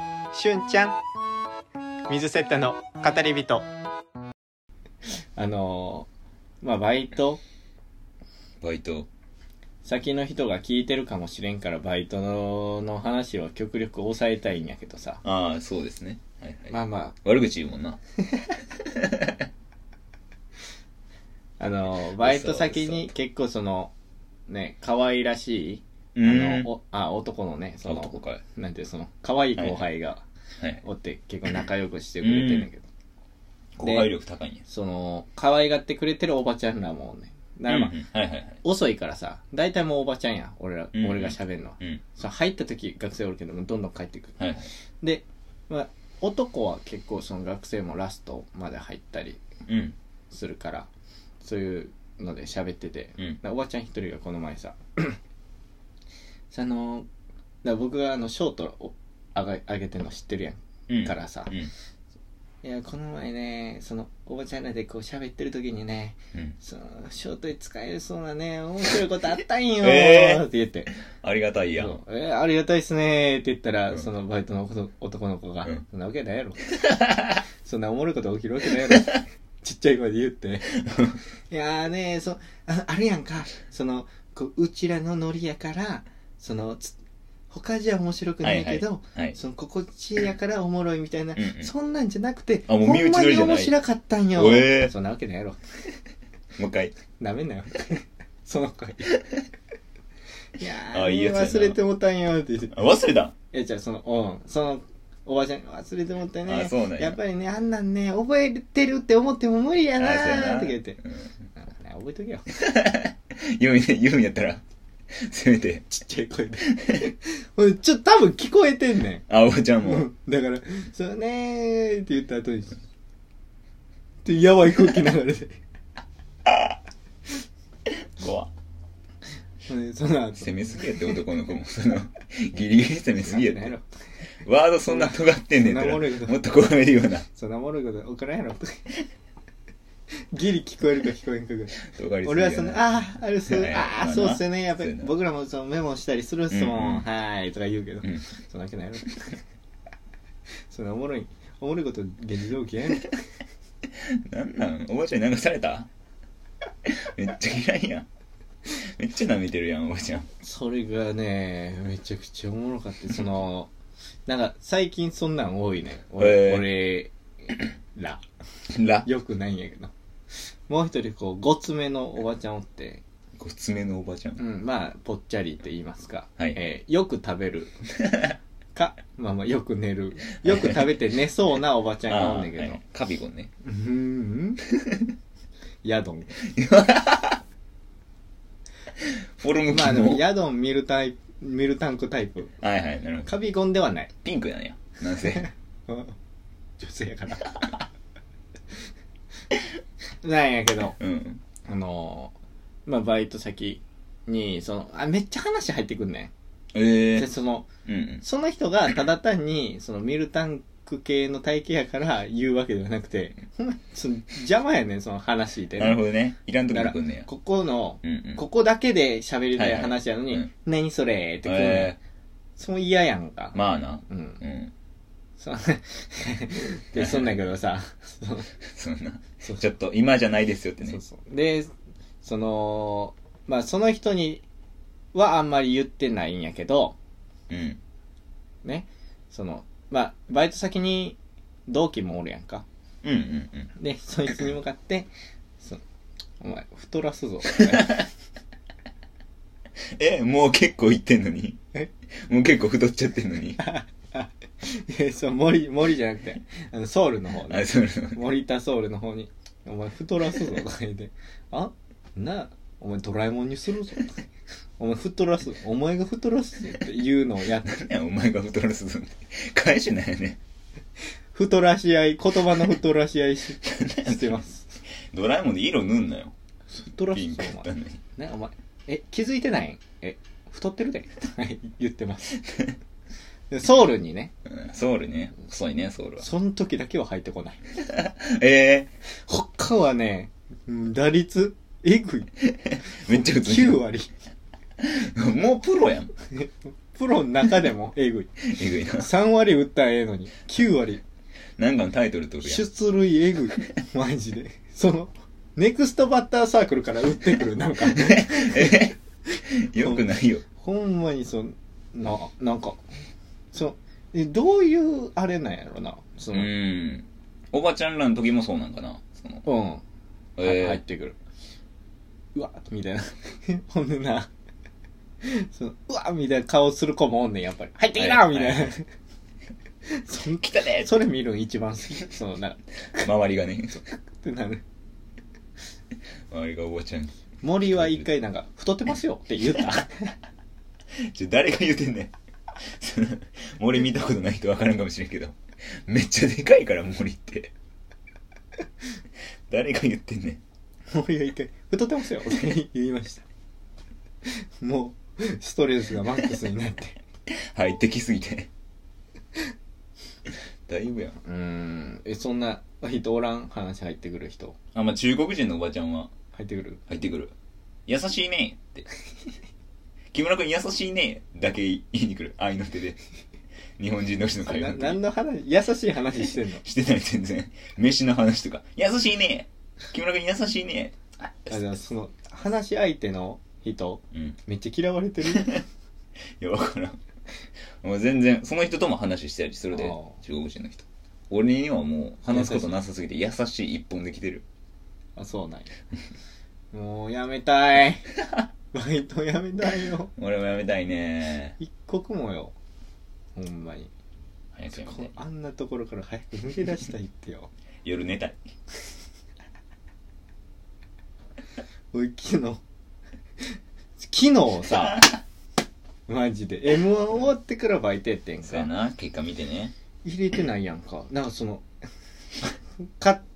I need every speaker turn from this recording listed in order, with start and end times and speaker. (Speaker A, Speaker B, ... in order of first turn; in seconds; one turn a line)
Speaker A: 0.3-1.0
Speaker A: 2.1-3.6
Speaker A: 5.4-6.1
Speaker A: 6.6-7.4
Speaker B: 8.6-9.1
Speaker A: 9.8-15.2
Speaker B: 15.2-18.0
Speaker A: 16.7-17.1
Speaker B: 18.8-19.5
Speaker A: 21.6-23.9
Speaker B: 22.0-23.1
Speaker A: 24.5-30.2
Speaker B: 26.1-26.7
Speaker B: 27.9-28.4
Speaker B: 29.6-29.8
Speaker A: 30.8-32.9
Speaker B: 32.2-32.7
Speaker B: 33.8-34.6
Speaker A: 33.8-34.1
Speaker A: 34.6-38.0
Speaker B: 37.7-38.6
Speaker A: 38.6-44.4
Speaker B: 40.9-42.0
Speaker B: 44.4-44.7
Speaker A: 45.0-49.4
Speaker B: 49.7-50.0
Speaker A: 50.3-50.9
Speaker A: 51.4-55.2
Speaker A: 56.5-57.1
Speaker A: 57.6-61.5
Speaker B: 60.9-61.7
Speaker A: 62.6-70.9
Speaker B: 69.8-70.4
Speaker B: 71.1-72.0
Speaker A: 71.8-76.9
Speaker B: 76.9-77.3
Speaker A: 77.6-80.7
Speaker B: 80.8-81.2
Speaker A: 81.5-87.0
Speaker A: 87.5-95.6
Speaker B: 88.4-89.4
Speaker B: 91.4-91.7
Speaker B: 92.7-93.7
Speaker B: 94.4-94.9
Speaker B: 96.6-96.9
Speaker A: 97.2-99.2
Speaker A: 100.6-102.8
Speaker B: 100.9-101.8
Speaker B: 102.7-103.3
Speaker A: 103.5-111.0
Speaker B: 106.5-107.2
Speaker B: 110.0-111.3
Speaker A: 111.5-112.5
Speaker B: 112.5-115.9
Speaker A: 115.9-119.2
Speaker B: 119.3-120.1
Speaker A: 119.8-122.8
Speaker A: 124.2-125.6
Speaker B: 126.5-126.7
Speaker B: 127.9-128.5
Speaker A: 129.7-131.1
Speaker B: 130.4-133.7
Speaker A: 133.2-133.8
Speaker B: 134.4-137.2
Speaker A: 134.9-136.4
Speaker A: 137.3-138.9
Speaker A: 140.3-149.4
Speaker B: 141.9-142.9
Speaker B: 143.5-145.1
Speaker B: 146.5-147.1
Speaker A: 150.7-153.2
Speaker B: 154.0-155.9
Speaker B: 156.8-158.1
Speaker B: 158.7-160.3
Speaker A: 160.4-163.7
Speaker A: 164.3-167.1
Speaker B: 166.2-166.6
Speaker A: 167.9-168.2
Speaker B: 168.7-169.1
Speaker A: 169.0-173.0
Speaker B: 173.4-174.4
Speaker A: 174.4-177.8
Speaker B: 178.0-178.3
Speaker A: 178.8-182.8
Speaker B: 180.4-180.9
Speaker B: 182.1-183.5
Speaker A: 183.6-184.6
Speaker A: 185.8-186.3
Speaker B: 186.4-187.4
Speaker B: 189.0-190.2
Speaker A: 189.7-192.5
Speaker B: 192.6-193.3
Speaker A: 193.2-194.1
Speaker B: 194.2-195.5
Speaker A: 195.2-196.2
Speaker A: 196.8-197.7
Speaker A: 200.2-201.0
Speaker B: 201.0-201.4
Speaker A: 201.6-202.3
Speaker A: 202.9-206.3
Speaker B: 206.7-207.3
Speaker A: 207.1-207.7
Speaker B: 207.9-208.2
Speaker A: 208.2-216.0
Speaker B: 215.8-217.3
Speaker A: 216.7-222.0
Speaker B: 218.0-218.4
Speaker B: 219.5-220.5
Speaker B: 221.4-222.0
Speaker A: 222.6-223.6
Speaker B: 223.5-224.7
Speaker A: 224.1-224.4
Speaker A: 225.4-228.5
Speaker B: 226.9-227.3
Speaker B: 228.6-231.0
Speaker A: 230.8-231.7
Speaker A: 232.2-234.4
Speaker A: 235.1-237.0
Speaker B: 237.5-237.8
Speaker A: 238.6-242.6
Speaker B: 243.0-243.7
Speaker A: 243.8-245.1
Speaker A: 246.4-248.1
Speaker B: 247.6-248.0
Speaker B: 249.9-251.6
Speaker B: 252.2-253.6
Speaker A: 253.6-264.2
Speaker B: 257.5-258.2
Speaker A: 264.8-267.8
Speaker B: 267.6-270.4
Speaker A: 271.3-274.7
Speaker B: 273.6-274.4
Speaker B: 275.0-276.3
Speaker A: 276.7-282.4
Speaker B: 277.1-278.0
Speaker A: 283.5-284.3
Speaker B: 284.5-286.2
Speaker A: 286.2-287.6
Speaker B: 287.8-288.9
Speaker A: 289.1-292.3
Speaker B: 292.7-293.8
Speaker A: 293.1-294.1
Speaker B: 294.8-296.1
Speaker A: 296.3-298.4
Speaker B: 298.5-299.1
Speaker A: 299.0-301.0
Speaker B: 301.6-302.6
Speaker A: 302.4-308.9
Speaker B: 307.9-310.4
Speaker A: 309.8-312.8
Speaker A: 313.5-316.5
Speaker B: 316.3-319.4
Speaker A: 319.4-319.8
Speaker B: 320.4-320.8
Speaker A: 320.4-321.2
Speaker A: 322.4-324.3
Speaker A: 325.2-328.9
Speaker B: 328.0-328.7
Speaker A: 329.9-333.1
Speaker B: 330.4-331.0
Speaker B: 333.0-333.8
Speaker A: 333.7-334.6
Speaker B: 336.3-337.1
Speaker A: 337.4-340.1
Speaker B: 337.7-338.0
Speaker B: 341.0-347.5
Speaker B: 349.5-350.4
Speaker A: 350.9-353.2
Speaker A: 354.2-357.0
Speaker B: 357.3-358.5
Speaker B: 360.3-361.2
Speaker A: 361.2-364.6
Speaker B: 364.7-366.1
Speaker A: 366.3-366.8
Speaker B: 366.9-367.3
Speaker B: 367.9-368.9
Speaker B: 370.1-373.0
Speaker B: 373.8-375.0
Speaker A: 374.4-376.6
Speaker B: 376.6-381.6
Speaker A: 381.5-385.6
Speaker B: 384.1-384.4
Speaker B: 385.2-385.6
Speaker B: 386.4-387.0
Speaker B: 387.8-394.4
Speaker A: 389.7-390.2
Speaker A: 392.3-392.8
Speaker A: 395.2-395.7
Speaker A: 396.7-398.1
Speaker A: 398.7-400.1
Speaker B: 400.1-401.6
Speaker A: 401.6-402.5
Speaker A: 403.4-403.9
Speaker B: 404.5-405.1
Speaker A: 404.8-407.5
Speaker B: 407.8-408.4
Speaker A: 411.9-412.6
Speaker A: 413.4-415.1
Speaker A: 416.1-418.7
Speaker B: 418.4-419.7
Speaker A: 420.0-421.6
Speaker A: 422.8-423.2